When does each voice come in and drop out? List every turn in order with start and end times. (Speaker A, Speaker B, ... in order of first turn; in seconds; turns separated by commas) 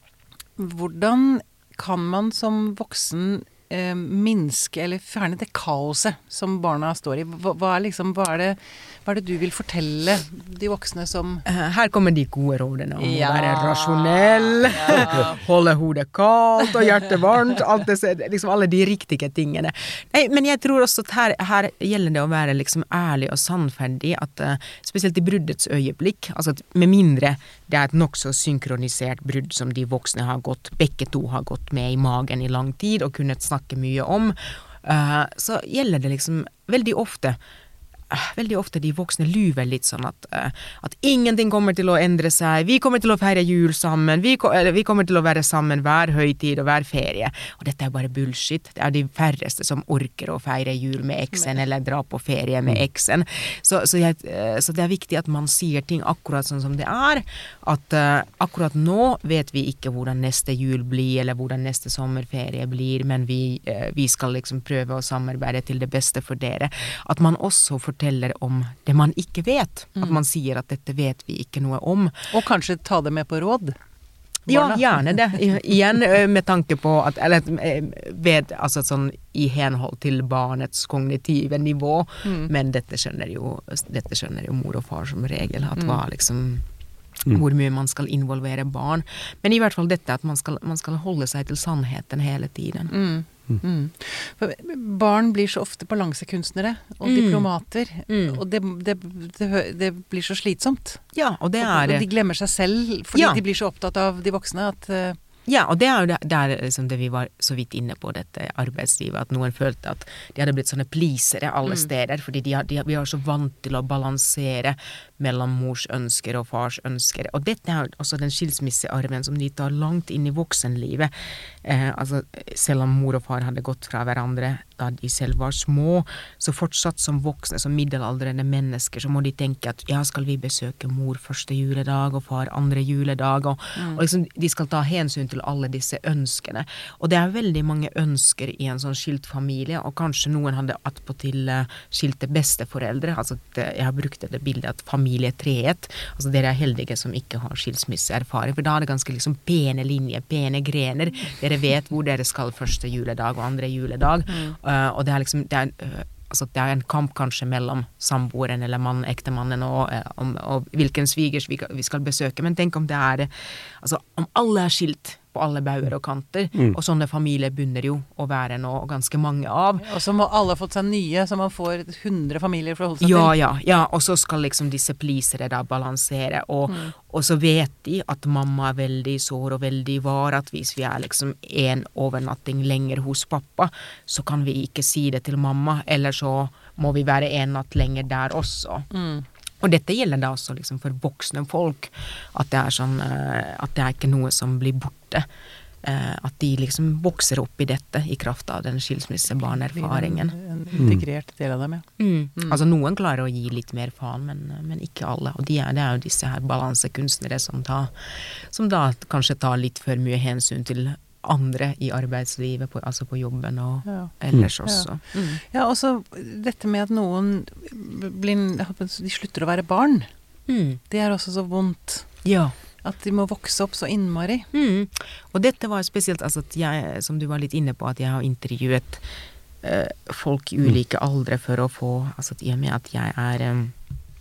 Speaker A: 0.6-11.4, Speaker B: 11.5-37.4, Speaker A: 13.0-15.4, Speaker B: 38.1-72.3, Speaker A: 70.0-70.2, Speaker A: 72.3-73.8, Speaker A: 74.5-75.0, Speaker B: 74.5-86.6, Speaker A: 82.2-82.5, Speaker A: 85.8-86.0, Speaker B: 87.2-92.9, Speaker A: 92.9-101.0, Speaker B: 97.0-97.5, Speaker B: 98.1-98.4, Speaker B: 101.1-102.1, Speaker A: 101.6-105.2, Speaker B: 103.1-103.4, Speaker B: 105.5-169.9, Speaker A: 133.8-134.0, Speaker A: 154.3-154.6, Speaker A: 169.8-173.3, Speaker B: 173.0-188.9, Speaker A: 176.7-176.9, Speaker A: 188.9-189.2, Speaker B: 189.6-195.3, Speaker B: 195.8-200.4, Speaker A: 199.7-202.6, Speaker B: 202.0-215.4, Speaker A: 213.9-214.1, Speaker A: 214.7-220.1, Speaker B: 220.5-220.8, Speaker A: 220.9-222.2, Speaker B: 222.2-222.6, Speaker A: 222.8-224.5, Speaker B: 224.5-229.0, Speaker B: 229.6-233.7